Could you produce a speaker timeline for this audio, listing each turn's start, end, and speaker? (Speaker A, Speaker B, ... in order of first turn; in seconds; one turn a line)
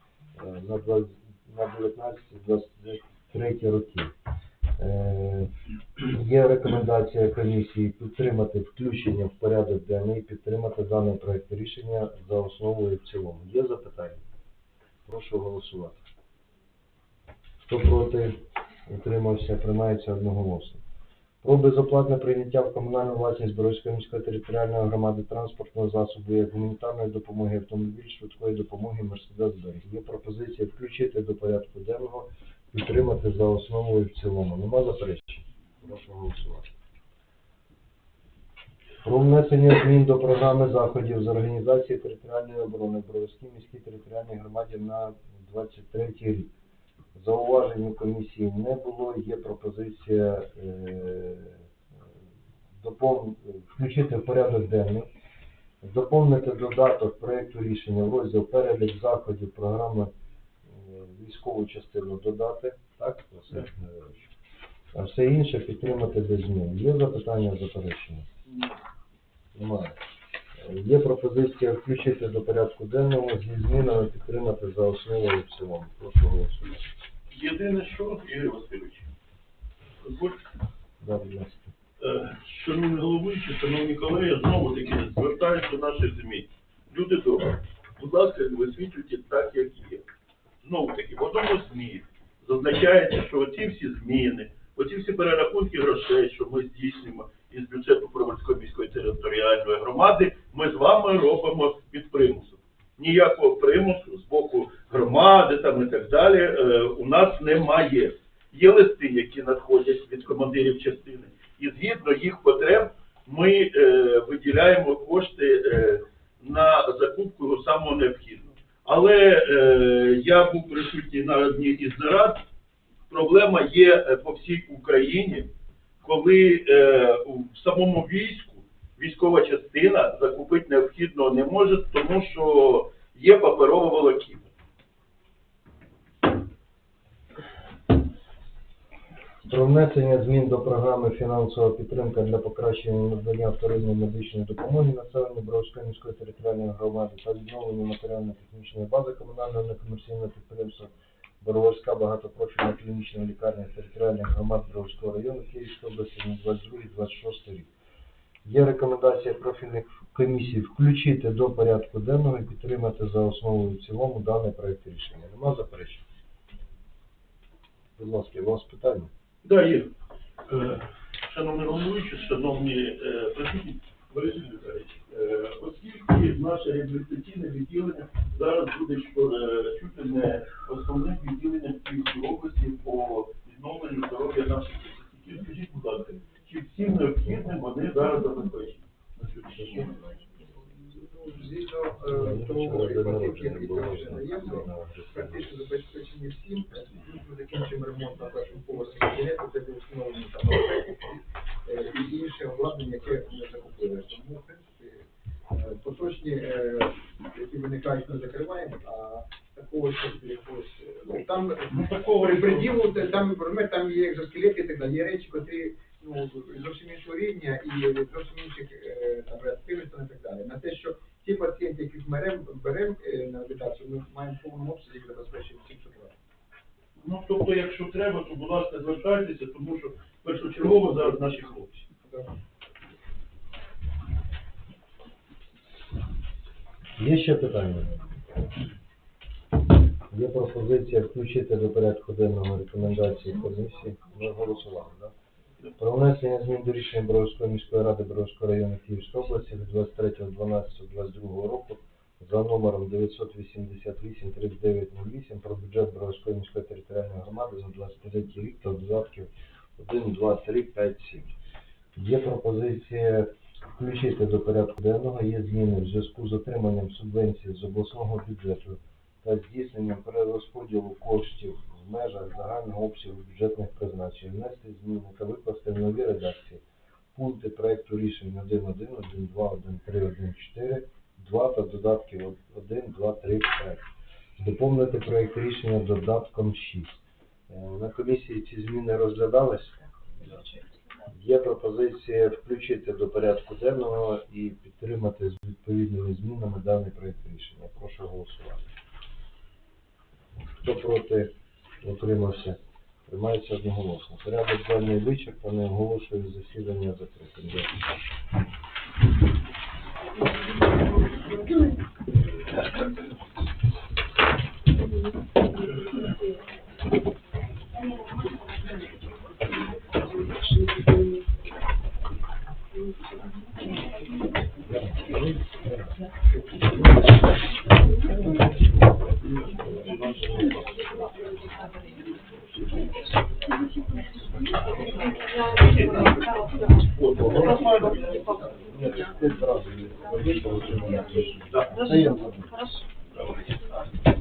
Speaker A: 0.4-4.1
Speaker A: 4.8-14.2
Speaker A: 15.1-16.0
Speaker A: 17.7-18.4
Speaker A: 18.9-20.8
Speaker A: 21.4-36.7
Speaker A: 39.0-46.5
Speaker A: 47.1-51.6
Speaker A: 52.8-55.1
Speaker A: 55.8-60.1
Speaker A: 60.7-64.3
Speaker A: 64.9-68.3
Speaker B: 68.5-68.8
Speaker A: 69.5-70.0
Speaker A: 70.6-76.9
Speaker B: 77.3-79.1
Speaker B: 80.0-80.4
Speaker A: 81.0-81.7
Speaker B: 82.0-90.0
Speaker B: 90.6-122.4
Speaker B: 123.1-125.5
Speaker B: 126.0-134.5
Speaker A: 139.4-157.7
Speaker A: 158.4-166.0
Speaker A: 168.0-169.1
Speaker B: 169.4-169.9
Speaker B: 170.5-190.0
Speaker C: 190.8-226.2
Speaker A: 192.1-195.5
Speaker B: 211.7-212.9
Speaker B: 227.0-231.9
Speaker C: 232.1-232.3
Speaker A: 237.0-237.9
Speaker A: 240.1-245.1
Speaker A: 245.8-261.3
Speaker A: 261.9-276.6
Speaker A: 277.1-283.9
Speaker A: 284.4-286.9
Speaker A: 287.5-289.9
Speaker A: 291.1-298.7
Speaker A: 300.6-307.7
Speaker A: 324.7-326.0
Speaker A: 329.7-330.6
Speaker B: 329.8-330.2
Speaker B: 335.6-336.2
Speaker B: 336.7-338.0
Speaker A: 337.1-337.9
Speaker A: 338.5-342.7
Speaker B: 341.5-341.9
Speaker B: 343.1-343.7